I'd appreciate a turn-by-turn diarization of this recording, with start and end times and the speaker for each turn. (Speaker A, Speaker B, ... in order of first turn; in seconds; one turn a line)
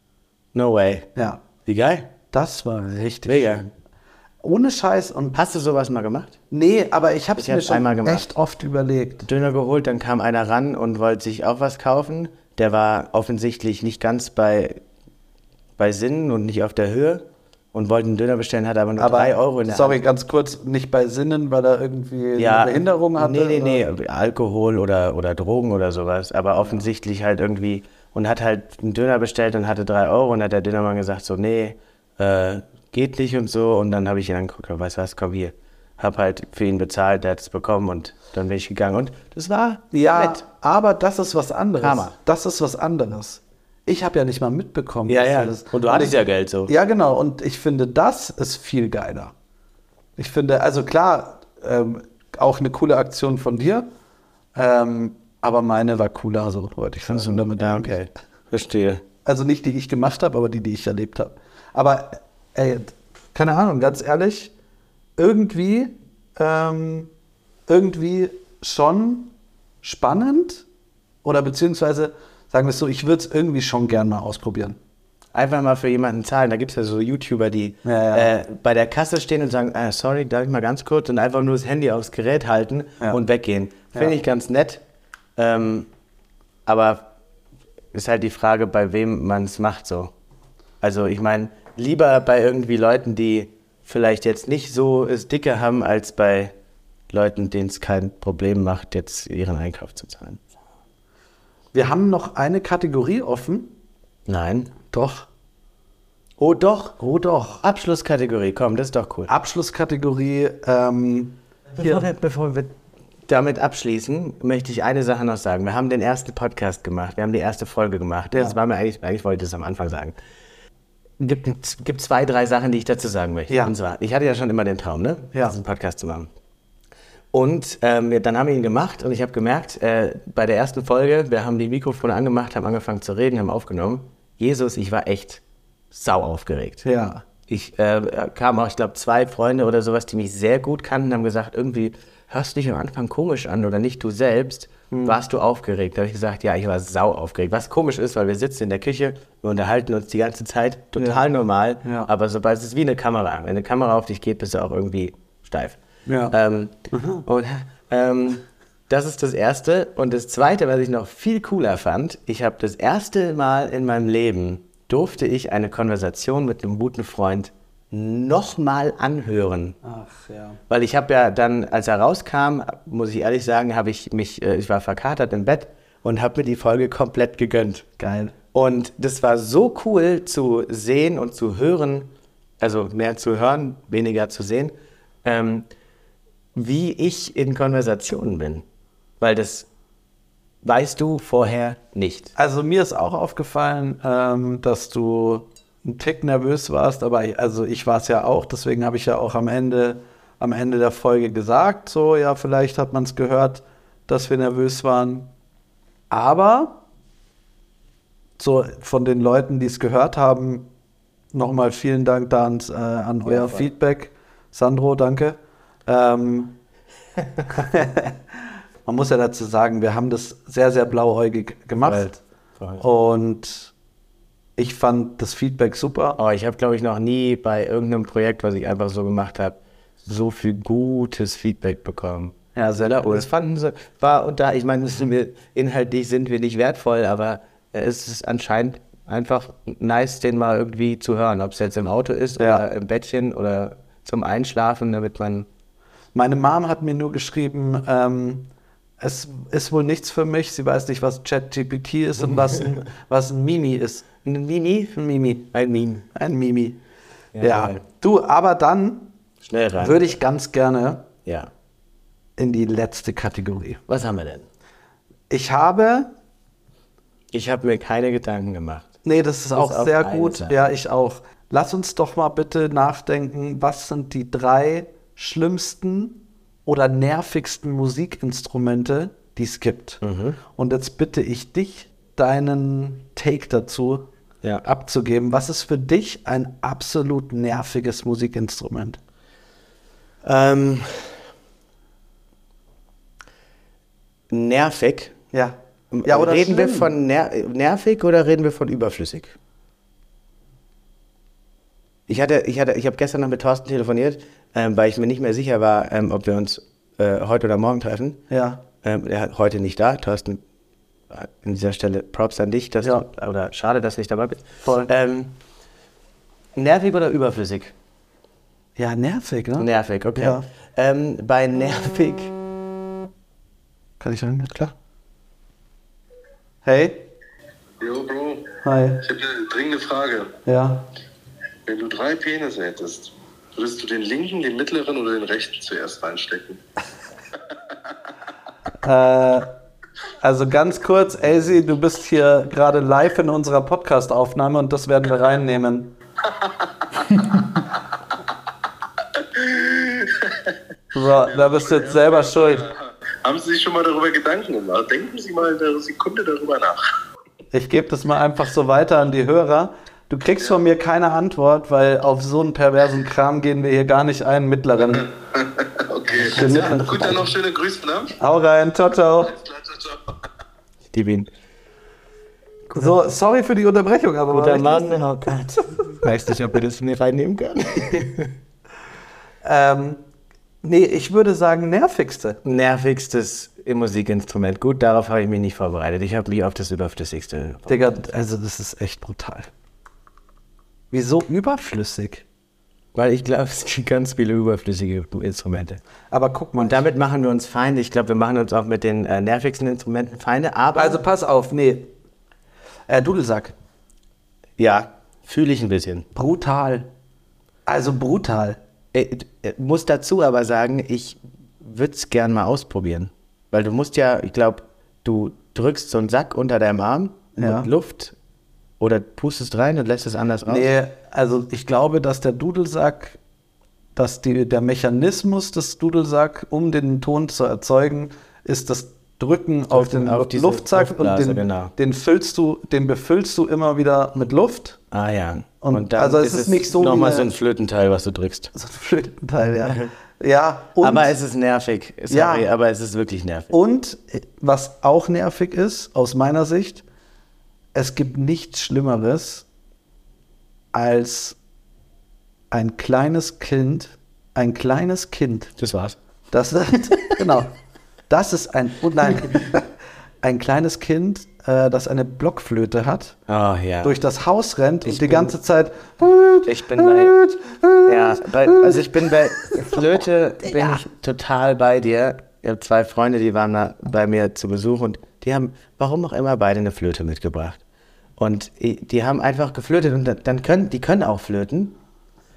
Speaker A: 0.5-1.1
Speaker B: 1.1-1.4
Speaker A: 1.6-2.1
Speaker B: 2.3-3.6
Speaker A: 3.2-3.7
Speaker B: 4.4-5.4
Speaker A: 5.3-6.3
Speaker B: 6.5-9.2
Speaker A: 7.4-8.3
Speaker A: 9.2-14.8
Speaker A: 15.8-20.0
Speaker B: 19.0-23.8
Speaker A: 22.4-40.4
Speaker B: 39.9-49.3
Speaker A: 41.8-42.1
Speaker A: 45.1-46.7
Speaker B: 50.2-53.9
Speaker B: 54.5-58.0
Speaker A: 57.1-59.0
Speaker B: 59.2-64.5
Speaker B: 65.2-67.1
Speaker B: 67.7-69.3
Speaker B: 69.8-70.6
Speaker B: 71.2-74.8
Speaker A: 75.3-84.8
Speaker B: 77.8-78.3
Speaker A: 85.4-85.9
Speaker A: 86.7-87.1
Speaker A: 87.9-90.1
Speaker A: 90.8-96.5
Speaker A: 97.1-100.4
Speaker B: 101.7-103.7
Speaker A: 104.3-104.7
Speaker B: 104.9-105.3
Speaker A: 106.4-107.0
Speaker B: 107.0-107.6
Speaker A: 107.6-109.3
Speaker B: 109.3-112.0
Speaker A: 111.8-112.7
Speaker A: 113.3-120.1
Speaker A: 121.2-126.3
Speaker B: 123.5-123.7
Speaker A: 127.3-136.8
Speaker B: 136.8-137.2
Speaker A: 137.5-155.8
Speaker B: 144.9-145.2
Speaker B: 151.0-151.2
Speaker B: 151.8-152.1
Speaker B: 156.1-156.3
Speaker A: 156.3-169.8
Speaker B: 156.9-157.2
Speaker B: 169.8-170.6
Speaker A: 170.7-177.8
Speaker B: 178.0-178.3
Speaker A: 178.5-185.7
Speaker A: 186.5-188.6
Speaker A: 189.2-189.7
Speaker A: 190.6-192.3
Speaker B: 192.3-205.3
Speaker B: 206.1-206.8
Speaker B: 208.4-210.7
Speaker B: 211.3-216.6
Speaker A: 213.2-213.6
Speaker B: 217.5-218.2
Speaker B: 218.8-222.2
Speaker B: 222.8-223.7
Speaker B: 224.6-226.2
Speaker A: 226.2-245.5
Speaker B: 232.6-233.2
Speaker B: 242.4-242.6
Speaker B: 246.1-248.5
Speaker B: 249.0-254.0
Speaker A: 254.2-254.9
Speaker B: 254.9-255.5
Speaker A: 255.5-256.0
Speaker B: 256.1-256.8
Speaker A: 257.3-257.8
Speaker B: 257.4-259.1
Speaker A: 259.4-260.1
Speaker B: 259.8-261.1
Speaker A: 261.2-261.5
Speaker B: 262.4-263.8
Speaker A: 263.9-264.4
Speaker B: 265.3-266.1
Speaker A: 267.3-268.9
Speaker B: 269.0-280.0
Speaker A: 269.5-270.5
Speaker A: 280.0-280.4
Speaker B: 280.5-284.1
Speaker B: 284.6-289.0
Speaker A: 290.2-291.1
Speaker A: 294.3-295.1
Speaker B: 295.3-296.9
Speaker A: 295.9-299.3
Speaker A: 302.1-308.2
Speaker B: 308.3-308.6
Speaker A: 308.8-310.4
Speaker A: 311.1-315.3
Speaker B: 314.6-314.9
Speaker A: 316.5-317.7
Speaker B: 318.8-320.4
Speaker A: 319.6-322.3
Speaker B: 324.0-324.6
Speaker B: 326.6-327.1
Speaker C: 327.8-330.3
Speaker B: 328.6-329.0
Speaker B: 330.4-330.9
Speaker C: 331.6-336.6
Speaker B: 338.8-339.5
Speaker B: 340.2-345.9
Speaker C: 349.3-350.5
Speaker B: 350.9-352.6
Speaker C: 351.3-356.8
Speaker B: 357.5-365.1
Speaker C: 365.4-368.1
Speaker B: 366.2-367.2
Speaker B: 368.2-369.4
Speaker C: 369.3-370.0
Speaker A: 370.9-371.3
Speaker B: 372.7-375.0
Speaker A: 374.3-378.3
Speaker B: 379.4-380.0
Speaker B: 380.6-382.4
Speaker A: 382.4-387.7
Speaker B: 387.7-389.5
Speaker B: 390.9-392.2
Speaker A: 392.9-395.8
Speaker B: 396.1-396.8
Speaker A: 396.6-401.0
Speaker B: 400.7-401.9
Speaker B: 402.9-403.5
Speaker A: 404.6-406.1
Speaker B: 406.1-406.9
Speaker B: 407.7-408.6
Speaker A: 408.9-418.1
Speaker B: 417.4-417.7
Speaker A: 418.8-420.7
Speaker B: 420.5-423.2
Speaker B: 423.9-434.8
Speaker A: 429.7-431.7
Speaker A: 434.9-438.5
Speaker B: 435.6-437.3
Speaker B: 438.5-441.2
Speaker A: 439.6-439.9
Speaker A: 440.8-443.5
Speaker B: 442.1-442.4
Speaker B: 443.5-446.8
Speaker B: 447.7-449.4
Speaker B: 450.7-451.4
Speaker B: 452.5-455.5
Speaker A: 455.6-456.0
Speaker B: 456.3-457.5
Speaker B: 458.1-459.6
Speaker B: 460.2-463.2
Speaker A: 463.3-463.9
Speaker B: 463.8-468.8
Speaker A: 464.8-465.3
Speaker A: 466.4-467.1
Speaker A: 467.9-477.6
Speaker B: 469.4-469.7
Speaker A: 478.2-481.8